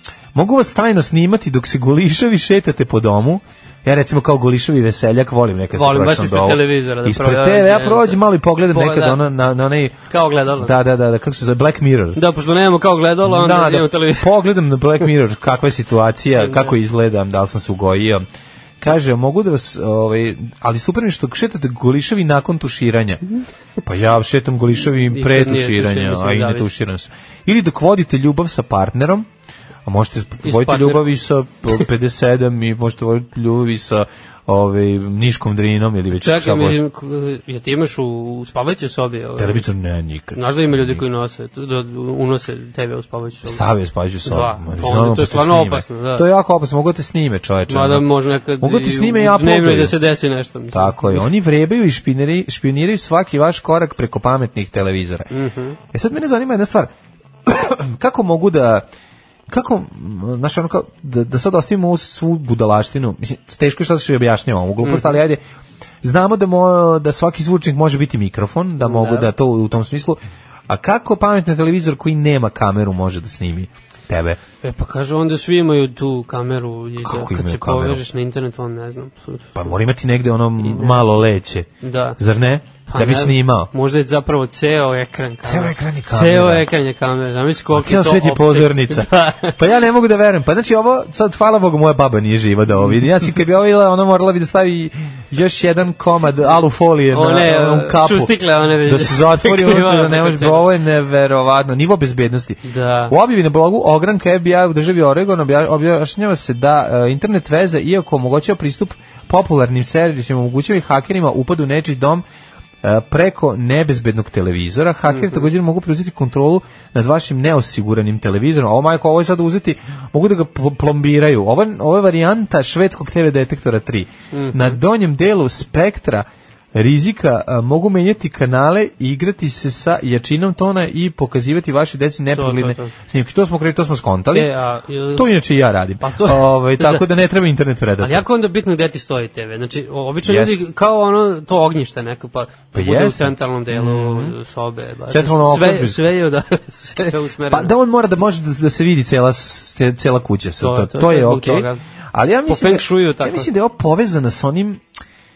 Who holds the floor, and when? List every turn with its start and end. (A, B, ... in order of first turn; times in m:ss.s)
0:00.3-0:10.0 A
0:05.7-0:09.2 B
0:10.1-0:10.7 B
0:10.5-0:12.2 A
0:12.2-0:14.3 B
0:13.2-0:18.2 A
0:16.4-0:16.7 B
0:18.8-0:23.2 A
0:23.8-0:29.3 A
0:25.1-0:26.7 B
0:29.8-0:36.8 A
0:30.4-0:31.1 B
0:36.2-0:39.6 B
0:39.4-0:41.0 A
0:40.3-0:43.6 B
0:43.4-0:48.1 A
0:44.2-0:46.3 B
0:47.7-0:51.3 B
0:48.6-0:50.0 A
0:50.7-0:55.3 A
0:55.3-0:55.8 B
0:55.9-0:56.9 A
0:57.4-0:58.9 A
0:59.5-1:05.4 A
1:04.8-1:05.1 B
1:06.0-1:14.4 A
1:08.8-1:09.3 B
1:14.6-1:19.6 B
1:17.0-1:18.0 A
1:19.6-1:23.7 A
1:20.6-1:21.1 B
1:21.8-1:22.2 B
1:22.9-1:29.6 B
1:25.4-1:26.7 A
1:27.7-1:52.2 A
1:37.1-1:40.7 B
1:42.6-1:43.1 B
1:52.8-2:14.5 A
1:55.1-1:55.5 B
2:04.3-2:04.8 B
2:12.3-2:12.9 B
2:14.3-2:15.3 B
2:15.1-2:18.2 A
2:16.0-2:17.0 B
2:18.0-2:27.7 B
2:20.2-2:20.6 A
2:22.7-2:24.4 A
2:25.1-2:26.0 A
2:27.5-2:34.8 A
2:30.6-2:31.8 B
2:32.5-2:33.5 B